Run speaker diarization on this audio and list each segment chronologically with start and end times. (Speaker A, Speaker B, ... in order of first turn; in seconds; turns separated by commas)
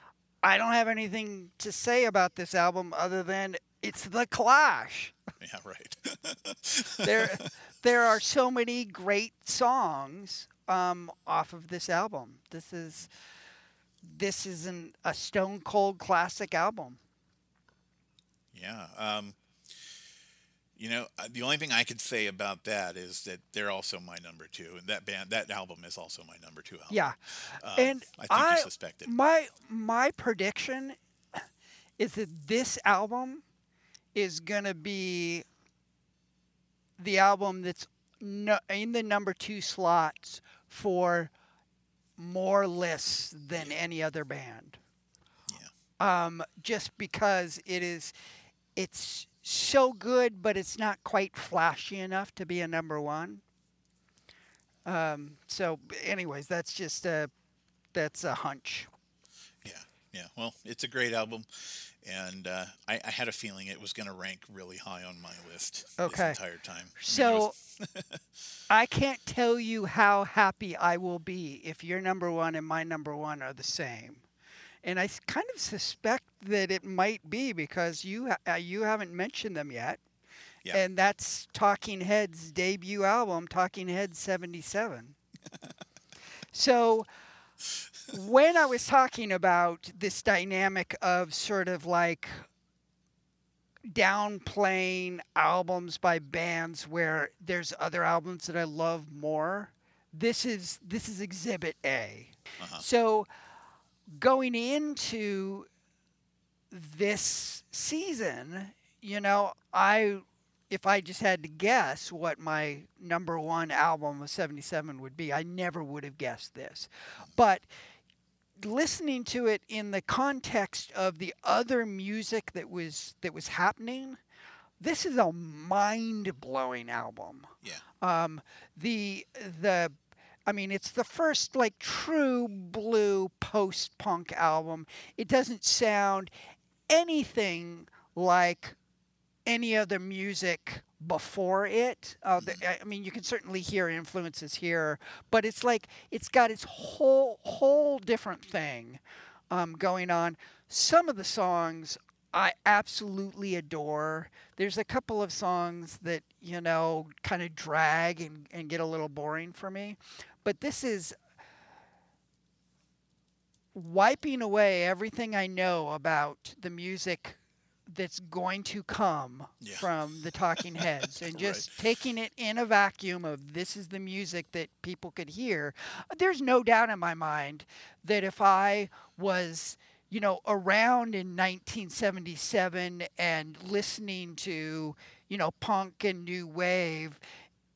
Speaker A: 0.4-5.2, Speaker B: 5.4-7.5, Speaker A: 7.0-13.1, Speaker A: 14.0-17.0, Speaker B: 18.5-19.4, Speaker B: 20.8-29.1, Speaker A: 26.9-31.0, Speaker A: 32.0-33.4, Speaker A: 34.1-35.5, Speaker A: 37.0-41.3, Speaker A: 42.2-44.8, Speaker A: 46.0-48.1, Speaker A: 48.8-53.4, Speaker A: 54.9-57.3, Speaker A: 57.9-58.9, Speaker B: 59.6-68.2, Speaker A: 66.0-66.4, Speaker A: 67.0-67.5, Speaker A: 68.7-74.2, Speaker A: 74.8-80.0, Speaker A: 80.7-85.2, Speaker A: 86.5-87.1, Speaker A: 88.1-92.5, Speaker A: 93.9-103.3, Speaker B: 102.6-102.8, Speaker A: 104.1-105.7, Speaker A: 106.7-117.7, Speaker A: 118.6-124.2, Speaker A: 124.8-127.5, Speaker A: 128.0-129.9, Speaker A: 130.5-136.3, Speaker A: 136.9-138.8, Speaker A: 139.5-149.0, Speaker B: 142.4-142.6, Speaker A: 149.5-161.2, Speaker A: 163.8-187.2, Speaker B: 169.6-169.9, Speaker B: 170.6-171.7